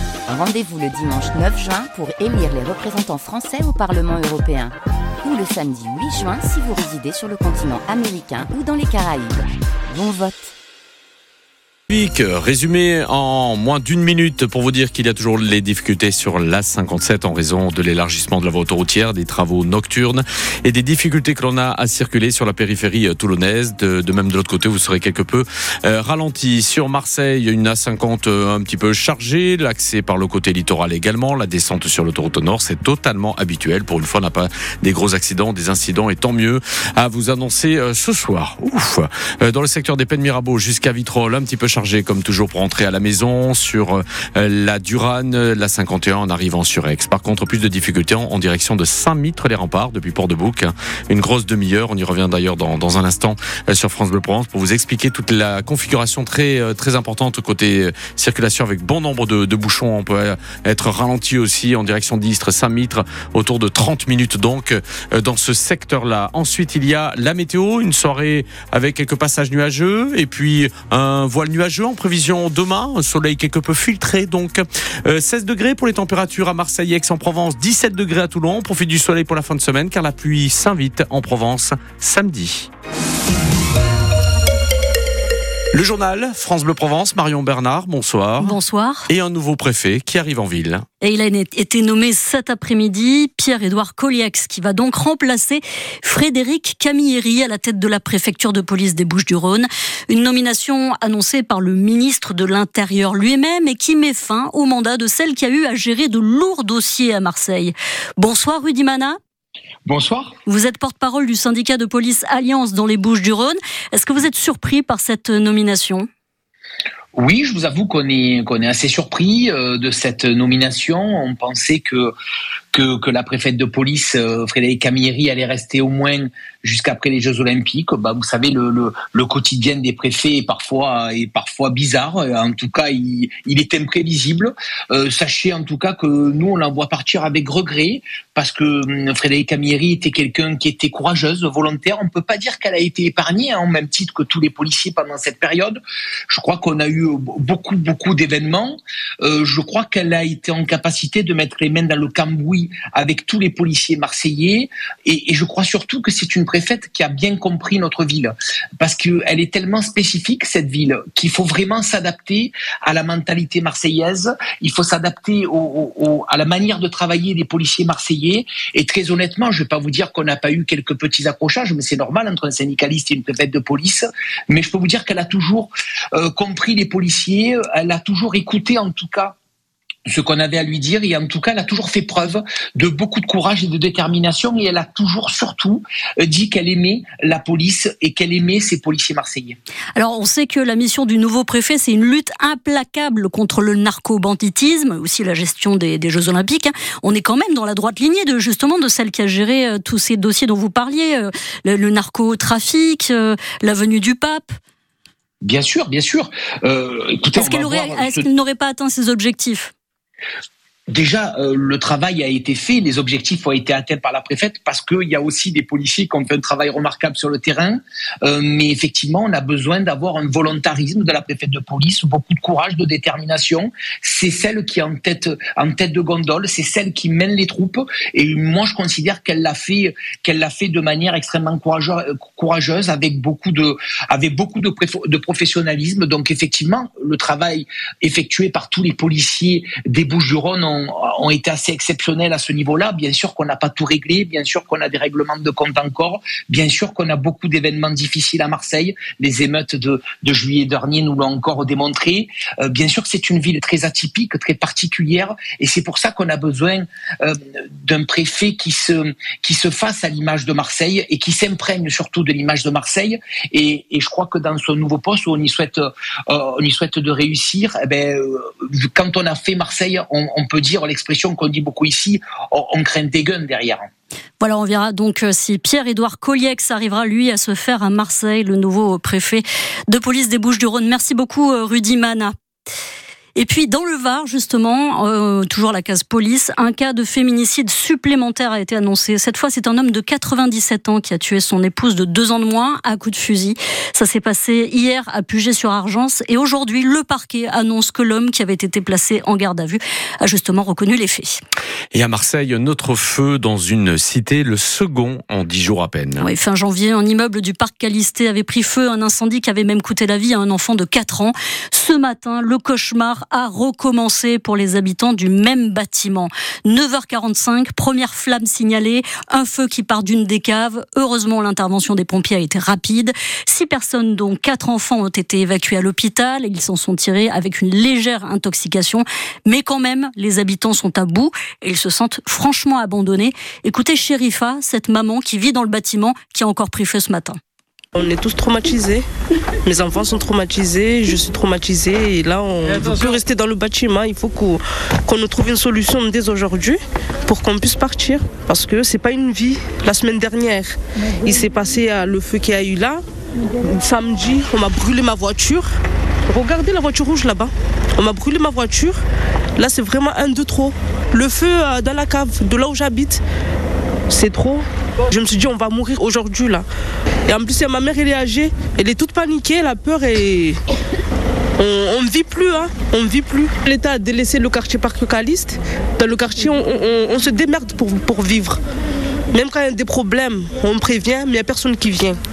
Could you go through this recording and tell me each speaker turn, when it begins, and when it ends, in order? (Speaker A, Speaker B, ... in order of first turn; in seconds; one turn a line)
Speaker A: 0.3-10.5
Speaker B: 11.9-82.7
Speaker B: 85.7-88.6
Speaker C: 88.4-89.1
Speaker B: 89.1-90.8
Speaker C: 91.0-109.2
Speaker D: 109.9-110.3
Speaker C: 110.5-116.1
Speaker D: 117.2-122.1
Speaker D: 122.7-145.8
Speaker D: 146.3-179.4
Speaker D: 180.1-189.6
Speaker C: 189.9-204.5
Speaker D: 205.4-208.2
Speaker C: 207.3-209.7
Speaker D: 210.9-273.9
Speaker C: 274.4-282.3
Speaker C: 283.4-301.4
Speaker B: 301.9-306.3
Speaker C: 306.2-337.4
Speaker E: 337.9-339.1
Speaker E: 339.6-353.0
Speaker E: 353.6-355.7
Speaker E: 356.3-359.0
Speaker E: 359.6-363.2
Speaker E: 364.1-366.6
Speaker E: 367.3-370.6
Speaker E: 371.6-378.6
Speaker E: 379.3-382.2